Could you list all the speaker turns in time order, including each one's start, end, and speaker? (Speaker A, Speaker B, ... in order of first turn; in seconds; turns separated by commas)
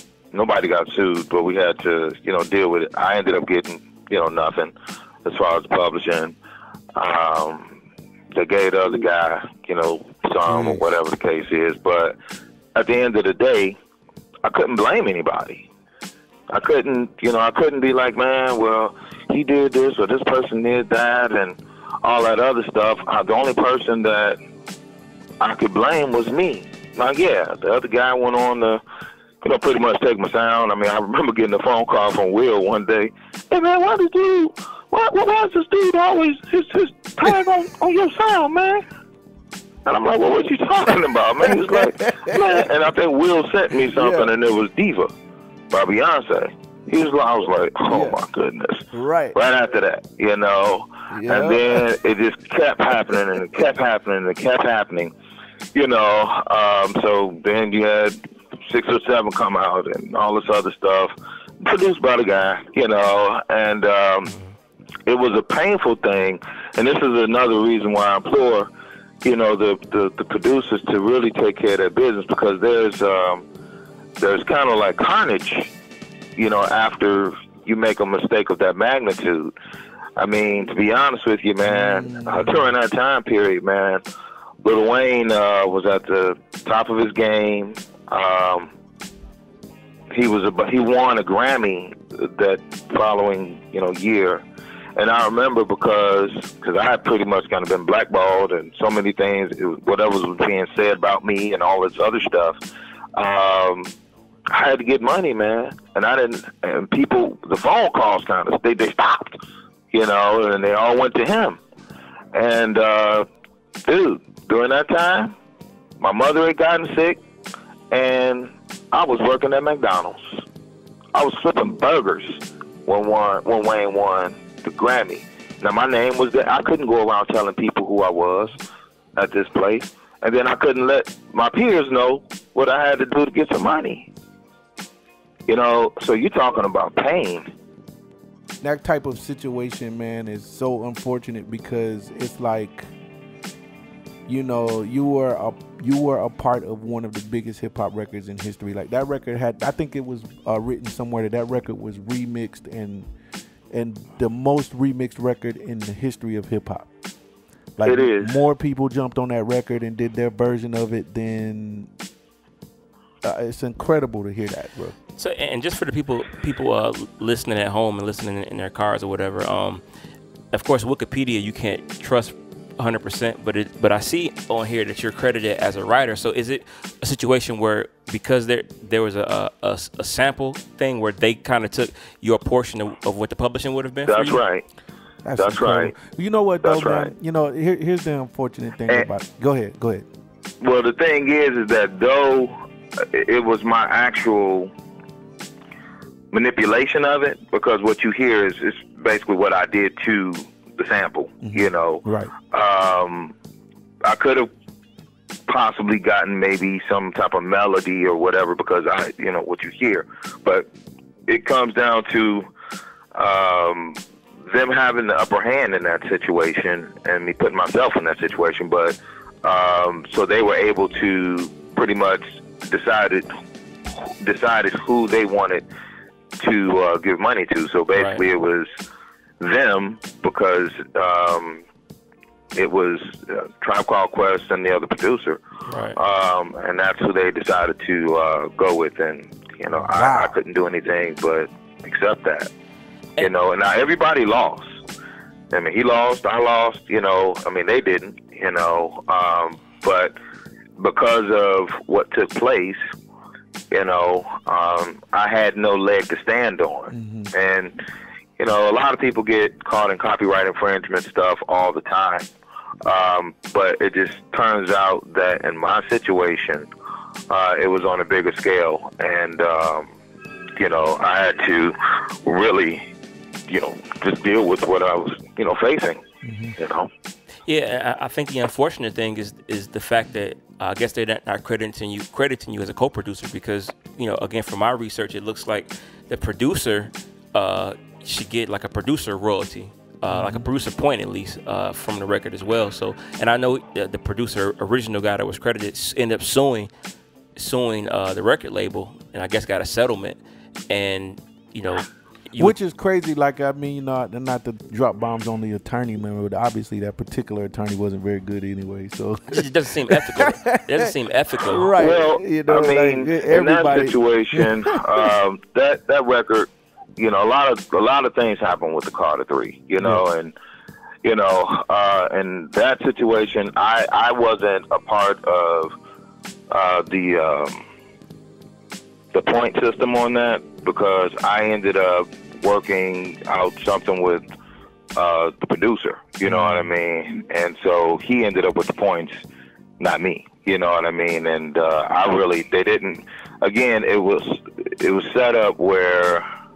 Speaker A: 0.3-4.7, Speaker A: 5.2-6.3, Speaker A: 7.0-7.8, Speaker A: 8.3-12.2, Speaker B: 10.4-10.8, Speaker A: 12.7-13.8, Speaker A: 14.4-15.7, Speaker A: 16.5-24.4, Speaker A: 25.4-28.8, Speaker A: 29.4-38.9, Speaker A: 39.9-45.1, Speaker B: 41.4-42.7, Speaker B: 43.9-44.3, Speaker A: 45.7-55.1, Speaker B: 47.9-48.2, Speaker B: 48.9-49.4, Speaker B: 51.1-51.9, Speaker A: 55.7-64.3, Speaker A: 65.1-68.7, Speaker A: 69.2-73.5, Speaker A: 74.2-75.7, Speaker A: 76.4-79.5, Speaker A: 80.2-84.0, Speaker B: 81.6-82.7, Speaker A: 84.6-88.7, Speaker A: 90.1-94.4, Speaker A: 95.0-102.6, Speaker A: 103.2-103.9, Speaker A: 104.5-109.4, Speaker A: 109.9-111.6, Speaker A: 112.3-113.3, Speaker A: 113.8-115.3, Speaker A: 116.0-117.2, Speaker A: 117.9-120.4, Speaker A: 121.1-128.6, Speaker A: 129.2-134.1, Speaker A: 135.5-137.5, Speaker B: 138.6-142.9, Speaker B: 144.3-153.1, Speaker B: 153.7-156.9, Speaker B: 157.8-161.9, Speaker A: 157.8-158.4, Speaker B: 163.2-164.9, Speaker C: 165.2-169.8, Speaker C: 170.5-184.4, Speaker A: 184.1-184.6, Speaker B: 185.2-190.1, Speaker A: 185.4-186.0, Speaker A: 186.6-187.1, Speaker A: 190.6-194.7, Speaker A: 196.3-203.3, Speaker B: 201.4-202.3, Speaker A: 204.0-204.5, Speaker A: 205.5-210.7, Speaker A: 211.3-212.5, Speaker A: 213.2-223.3, Speaker A: 224.1-225.7, Speaker A: 226.4-228.7, Speaker C: 227.9-228.2, Speaker A: 229.4-231.6, Speaker A: 232.6-235.4, Speaker C: 235.7-236.0, Speaker A: 235.9-242.5, Speaker B: 239.9-240.3, Speaker A: 243.2-244.8, Speaker A: 245.5-250.2, Speaker A: 250.8-252.8, Speaker A: 253.7-257.8, Speaker B: 256.9-257.3, Speaker A: 258.4-262.3, Speaker A: 262.8-266.7, Speaker A: 267.3-269.9, Speaker A: 270.6-272.9, Speaker A: 273.5-276.0, Speaker B: 276.2-276.6, Speaker A: 276.6-276.9, Speaker C: 277.5-296.7, Speaker B: 290.1-290.4, Speaker C: 297.4-300.2, Speaker C: 300.7-302.6, Speaker B: 302.4-315.1, Speaker C: 309.3-311.8, Speaker A: 311.8-320.4, Speaker B: 319.8-320.0, Speaker A: 321.0-325.7, Speaker A: 326.5-327.6, Speaker A: 329.1-334.2, Speaker A: 334.9-339.2, Speaker B: 336.2-336.7, Speaker A: 339.8-346.3